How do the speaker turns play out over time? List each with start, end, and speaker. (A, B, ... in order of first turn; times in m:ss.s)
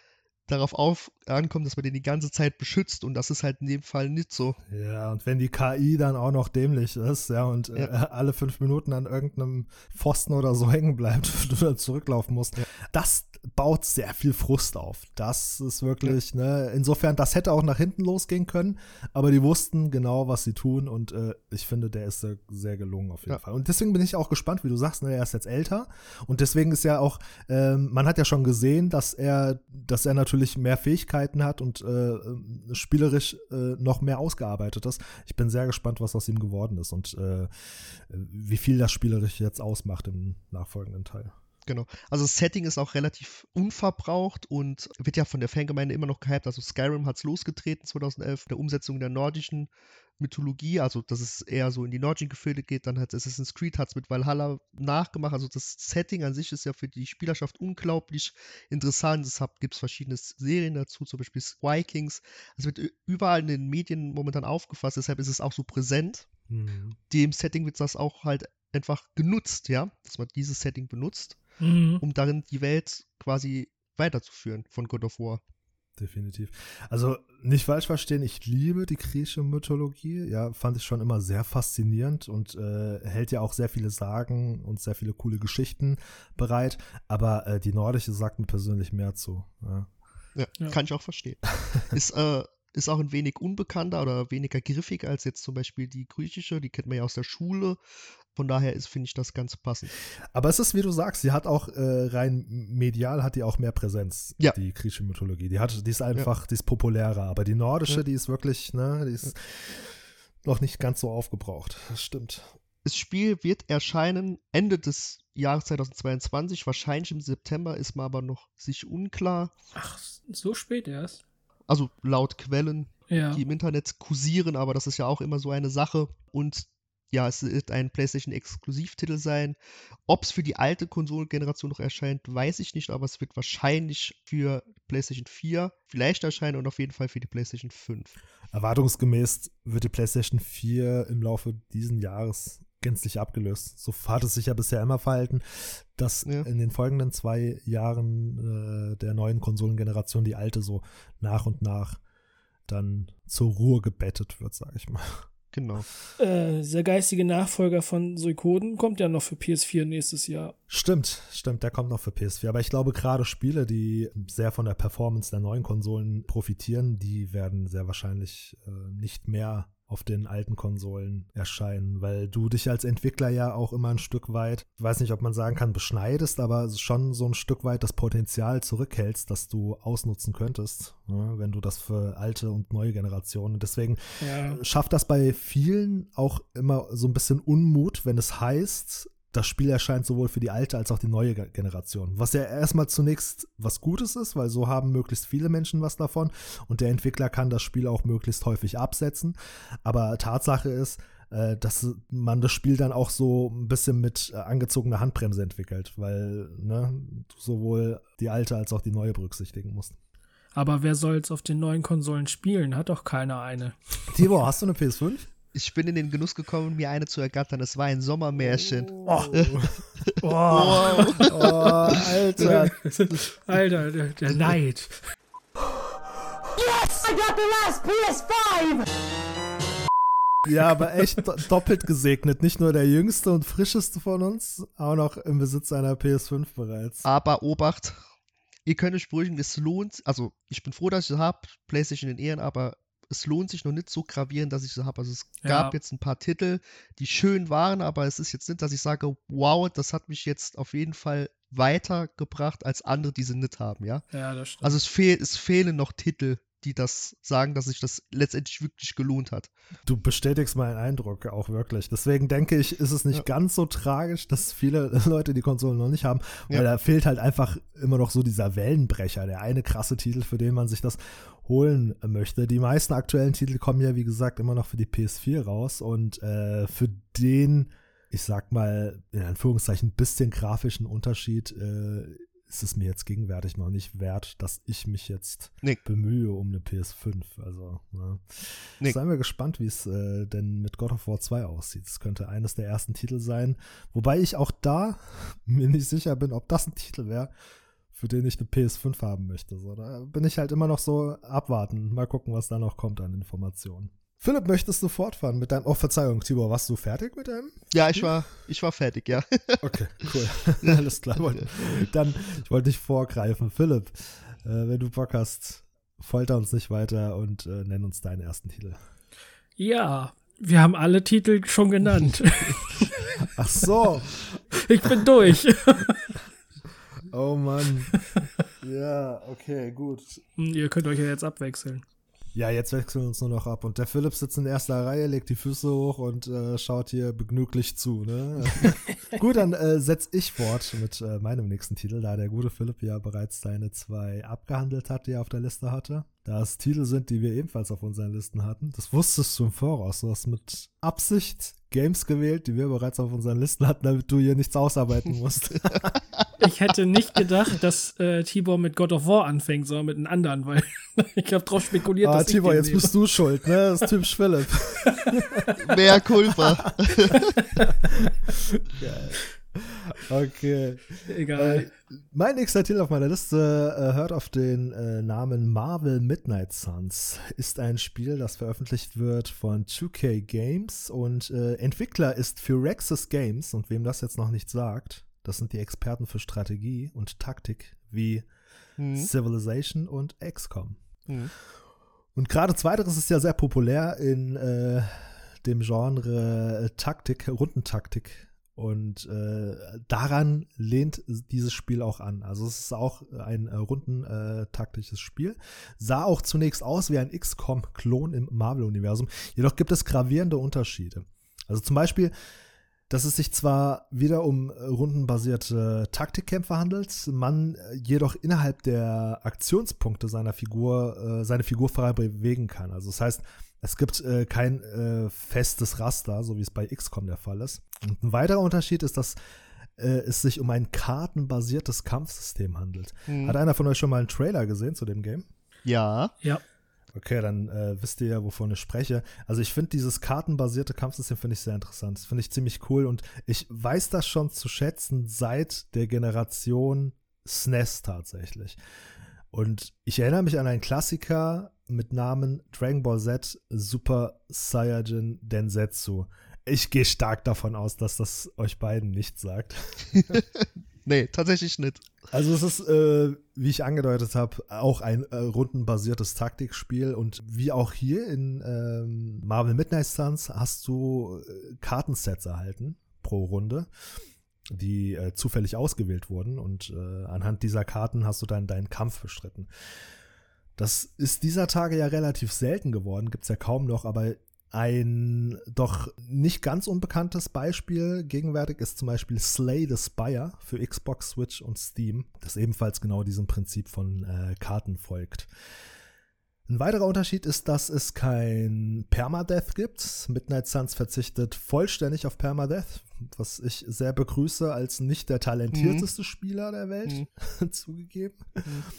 0:00.5-0:04.6 A
0:04.7-0:37.5 B
0:38.1-0:41.4 B
0:41.7-1:06.3 A
1:06.5-1:07.0 B
1:07.1-1:11.4 A
1:11.6-1:12.0 C
1:12.0-1:15.4 A
1:16.0-1:29.9 B
1:30.4-1:37.8 A
1:38.4-1:39.9 A
1:40.3-1:49.9 B
1:50.4-1:52.5 B
1:52.8-1:59.5 A
1:59.8-2:01.2 C
2:01.7-2:09.6 A
2:03.1-2:03.4 C
2:10.1-2:18.2 A
2:18.5-2:32.0 B
2:32.7-2:35.2 B
2:35.5-2:35.9 A
2:36.2-2:40.6 C
2:40.7-3:30.0 B
3:04.2-3:04.6 C
3:30.6-3:33.8 C
3:34.1-3:35.3 B
3:35.5-3:39.5 A
3:38.5-3:39.8 B
3:40.1-3:41.6 A
3:40.2-3:45.0 C
3:40.6-3:42.8 B
3:46.6-3:47.1 B
3:47.1-3:48.8 C
3:50.4-3:57.1 B
3:57.0-3:58.0 A
3:58.7-4:14.0 A
4:05.4-4:05.8 C
4:14.1-4:14.8 C
4:14.6-4:19.5 A
4:19.8-4:48.2 B
4:48.8-4:57.3 B
4:57.9-5:08.1 B
5:07.7-5:09.6 A
5:09.6-5:18.8 B
5:10.6-5:11.8 A
5:19.6-5:23.3 C
5:23.3-5:24.1 B
5:24.6-5:26.2 C
5:27.1-5:28.0 B
5:28.6-5:30.2 B
5:30.4-5:31.8 C
5:32.3-5:56.0 B
5:56.4-6:03.0 C
6:02.0-6:05.5 B
6:05.6-6:07.3 A
6:07.6-6:28.3 B
6:11.1-6:11.7 C
6:28.8-6:29.1 A
6:28.9-6:30.8 B
6:32.2-6:52.1 B
6:52.9-7:09.2 B
7:09.8-7:15.3 B
7:13.1-7:13.4 A
7:15.6-7:16.1 A
7:16.9-7:28.6 B
7:29.3-7:40.2 B
7:40.9-7:41.8 A
7:42.1-7:53.7 B
7:54.5-7:59.5 B
8:00.6-8:15.3 B
8:16.5-8:28.5 B
8:25.5-8:25.9 A